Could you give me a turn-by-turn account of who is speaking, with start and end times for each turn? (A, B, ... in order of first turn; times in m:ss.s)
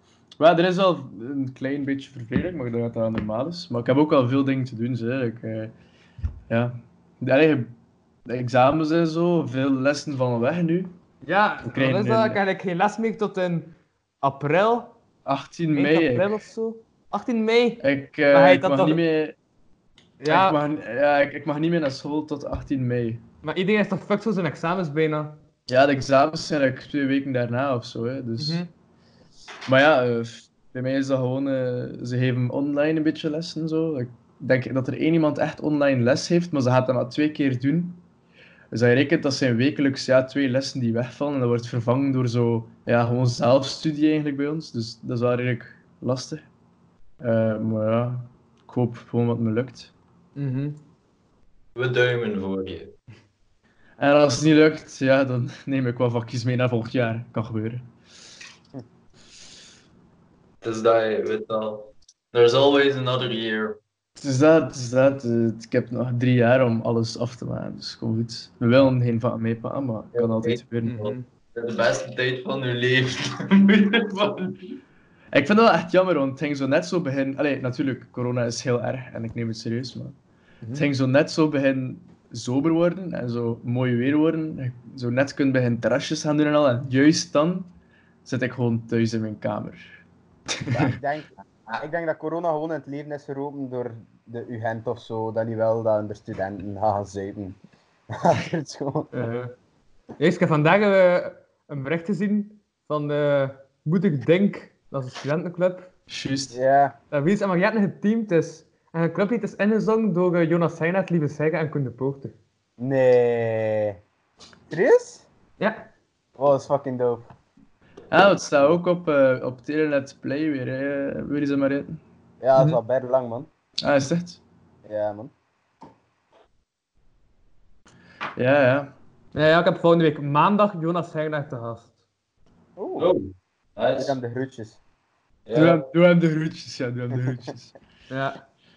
0:00.4-0:05.7 A
0:06.5-0:11.0 A
0:11.2-0:15.0 B
0:11.7-0:12.4 A
0:15.3-0:16.3 A
0:15.7-0:19.0 B
0:17.8-0:19.4 A
0:20.2-0:20.6 B
0:20.3-0:23.2 A
0:23.4-0:25.4 B
0:25.7-0:28.6 A
0:28.4-0:28.7 B
0:29.7-0:38.0 A
0:38.7-0:46.4 A
0:47.2-0:49.9 A
0:50.4-0:50.8 B
0:51.8-0:52.9 C
0:54.0-0:57.8 A
1:00.6-1:03.8 C
1:04.2-1:11.0 A
1:10.2-1:14.8 C
1:10.8-1:11.2 B
1:15.3-1:20.2 A
1:20.6-1:20.9 B
1:20.8-1:27.7 A
1:28.2-1:29.9 A
1:30.6-1:31.0 A
1:30.7-1:37.6 D
1:38.1-1:39.1 D
1:39.1-1:39.5 B
1:40.2-1:45.9 B
1:46.1-1:46.6 A
1:46.5-1:47.0 D
1:47.1-1:52.3 B
1:52.8-1:54.0 D
1:54.7-1:55.3 D
1:55.6-1:55.9 B
1:56.4-1:57.3 D
1:58.1-2:02.0 A
2:02.4-2:03.5 D
2:03.8-2:04.4 A
2:04.9-2:05.3 D
2:08.4-2:09.0 A
2:09.3-2:11.9 B
2:12.8-2:13.1 D
2:13.0-2:14.2 C
2:14.0-2:14.8 D
2:15.5-2:15.9 C
2:15.5-2:17.7 A
2:18.1-2:18.4 B